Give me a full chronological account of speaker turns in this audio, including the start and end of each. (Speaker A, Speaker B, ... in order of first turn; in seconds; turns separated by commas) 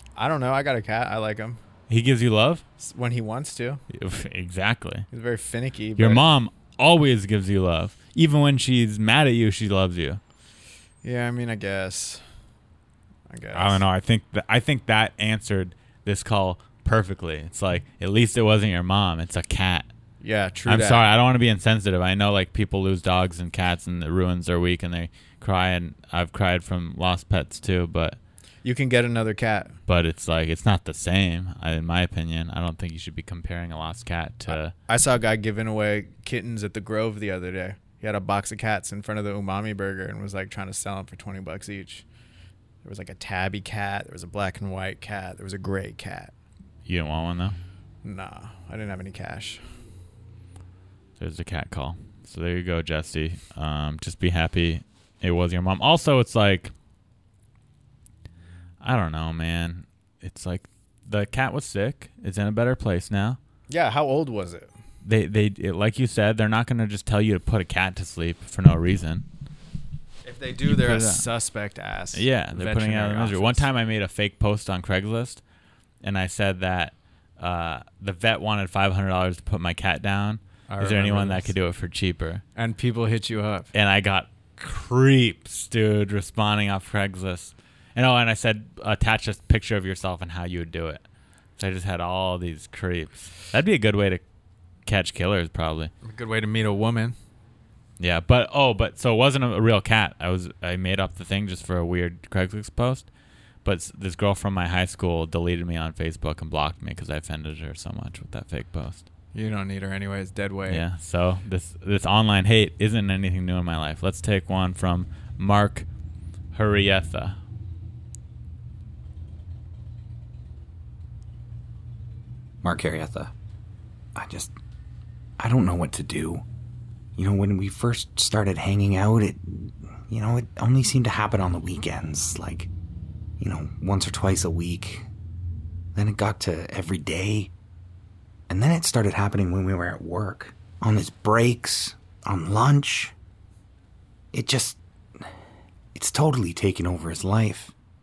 Speaker A: 0.2-1.6, Speaker B: 1.9-2.6, Speaker A: 2.8-3.8, Speaker B: 3.9-5.1, Speaker A: 5.1-6.2, Speaker B: 6.0-10.2, Speaker A: 11.0-12.2, Speaker A: 13.3-13.8, Speaker B: 13.5-19.9, Speaker A: 20.2-21.0, Speaker B: 20.6-28.2, Speaker A: 28.6-29.8, Speaker B: 29.9-34.7, Speaker A: 34.5-42.0, Speaker A: 42.8-46.3, Speaker B: 46.9-47.6, Speaker A: 48.0-49.6, Speaker B: 51.2-56.7, Speaker B: 58.8-63.4, Speaker A: 63.7-64.7, Speaker B: 65.0-69.3, Speaker A: 70.2-73.7, Speaker B: 70.6-71.2, Speaker B: 72.1-75.4, Speaker B: 76.0-82.4, Speaker A: 80.7-81.5, Speaker A: 82.6-83.7, Speaker B: 83.7-91.0, Speaker B: 91.6-94.2, Speaker B: 94.9-95.9, Speaker A: 96.0-97.2, Speaker B: 98.0-103.1, Speaker B: 103.6-109.0, Speaker A: 109.3-110.8, Speaker B: 110.7-115.9, Speaker B: 116.5-117.4, Speaker C: 122.6-123.3, Speaker C: 124.2-124.5, Speaker C: 125.4-126.4, Speaker C: 127.2-132.7, Speaker C: 133.4-135.1, Speaker C: 135.9-137.5, Speaker C: 138.5-143.1, Speaker C: 144.3-145.3, Speaker C: 145.9-147.7